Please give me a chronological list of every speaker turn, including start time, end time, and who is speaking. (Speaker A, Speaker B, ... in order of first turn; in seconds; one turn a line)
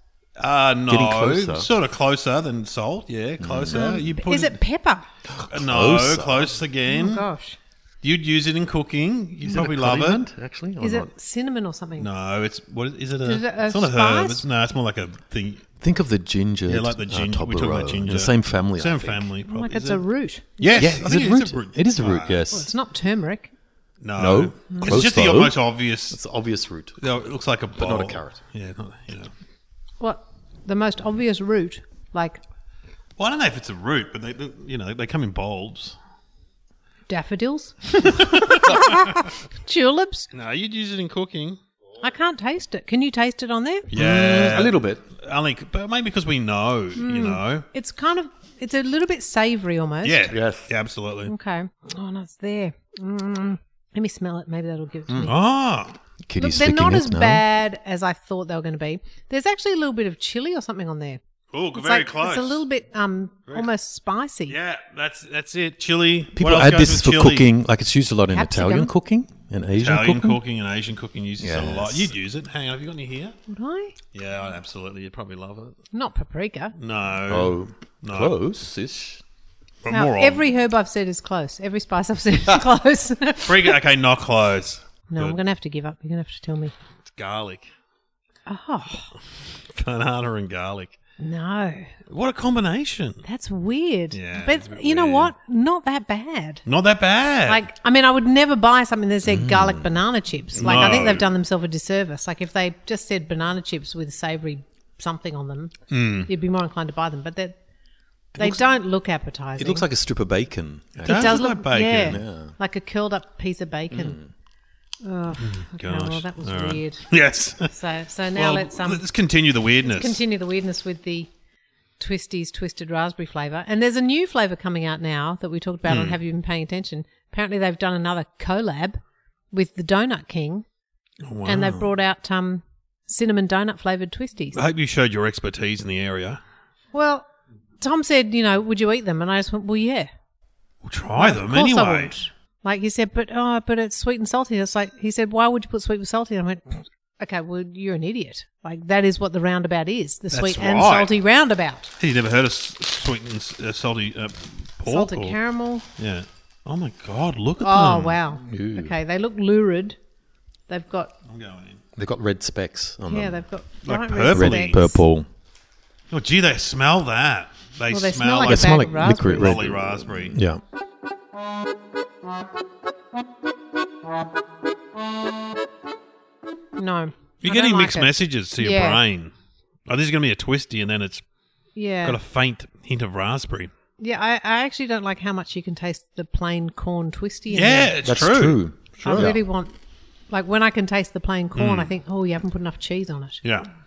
Speaker A: 0.4-4.6
Speaker B: 0.9-1.7
Speaker B: 3.4-4.1
Speaker C: 3.7-5.1
Speaker B: 5.3-6.5
Speaker A: 5.5-7.2
Speaker C: 6.9-7.6
Speaker A: 8.0-10.2
Speaker B: 9.4-11.1
Speaker C: 10.8-12.1
Speaker A: 12.0-15.7
Speaker C: 13.2-14.4
Speaker B: 15.8-19.3
Speaker A: 16.7-20.0
Speaker C: 19.5-20.8
Speaker A: 20.6-22.4
Speaker B: 20.8-22.7
Speaker C: 22.5-23.5
Speaker A: 24.0-26.2
Speaker B: 24.2-25.6
Speaker B: 26.1-27.2
Speaker A: 27.0-29.3
Speaker B: 27.8-28.4
Speaker C: 30.0-32.4
Speaker A: 33.2-36.0
Speaker C: 37.1-40.3
Speaker A: 38.0-39.3
Speaker A: 40.3-41.6
Speaker C: 42.0-43.9
Speaker A: 43.9-47.7
Speaker B: 43.9-45.0
Speaker C: 47.0-50.3
Speaker A: 50.0-51.3
Speaker B: 50.3-50.7
Speaker C: 51.3-55.4
Speaker A: 55.2-56.0
Speaker B: 56.3-57.4
Speaker C: 56.4-61.2
Speaker A: 61.5-62.6
Speaker C: 61.7-64.6
Speaker A: 64.5-67.5
Speaker B: 66.3-70.4
Speaker C: 68.3-68.9
Speaker A: 69.8-73.4
Speaker B: 71.4-72.1
Speaker C: 73.5-74.0
Speaker A: 74.1-75.8
Speaker C: 75.9-76.8
Speaker A: 76.8-78.4
Speaker B: 77.3-79.2
Speaker A: 79.8-80.5
Speaker C: 79.9-83.8
Speaker A: 83.4-85.4
Speaker C: 85.1-86.7
Speaker A: 87.1-87.7
Speaker C: 88.5-89.1
Speaker A: 89.7-91.0
Speaker C: 91.2-91.9
Speaker A: 92.1-93.2
Speaker C: 93.2-96.6
Speaker A: 94.1-95.3
Speaker A: 96.7-97.6
Speaker C: 97.5-105.8
Speaker B: 99.2-100.0
Speaker A: 100.5-101.3
Speaker A: 105.9-106.3
Speaker C: 106.3-107.5
Speaker B: 108.3-108.6
Speaker C: 108.4-109.9
Speaker B: 109.6-111.4
Speaker A: 111.0-112.2
Speaker C: 111.1-114.2
Speaker B: 112.0-112.5
Speaker B: 113.9-114.3
Speaker C: 115.0-117.1
Speaker A: 115.4-117.7
Speaker C: 117.7-119.0
Speaker A: 118.3-120.2
Speaker C: 119.8-121.3
Speaker C: 122.0-129.0
Speaker A: 125.8-126.2
Speaker C: 129.5-130.7
Speaker A: 131.2-131.9
Speaker C: 131.5-134.6
Speaker A: 134.6-136.4
Speaker C: 136.9-137.3
Speaker C: 137.8-140.1
Speaker A: 140.8-142.1
Speaker C: 141.2-151.9
Speaker A: 150.3-151.1
Speaker A: 152.0-155.4
Speaker C: 154.9-155.8
Speaker A: 156.0-158.2
Speaker C: 157.6-160.0
Speaker B: 158.3-158.9
Speaker C: 160.7-161.1
Speaker A: 161.2-161.8
Speaker B: 162.0-163.4
Speaker C: 163.1-165.0
Speaker A: 163.8-164.9
Speaker B: 164.3-165.3
Speaker A: 166.1-170.4
Speaker C: 167.9-169.6
Speaker B: 168.5-170.6
Speaker C: 176.8-179.0
Speaker A: 177.4-179.3
Speaker A: 179.9-181.2
Speaker C: 181.8-182.2
Speaker A: 182.0-183.7
Speaker C: 184.0-187.9
Speaker A: 187.5-189.3
Speaker B: 188.0-189.4
Speaker C: 189.0-189.7
Speaker C: 190.3-193.4
Speaker A: 191.6-191.9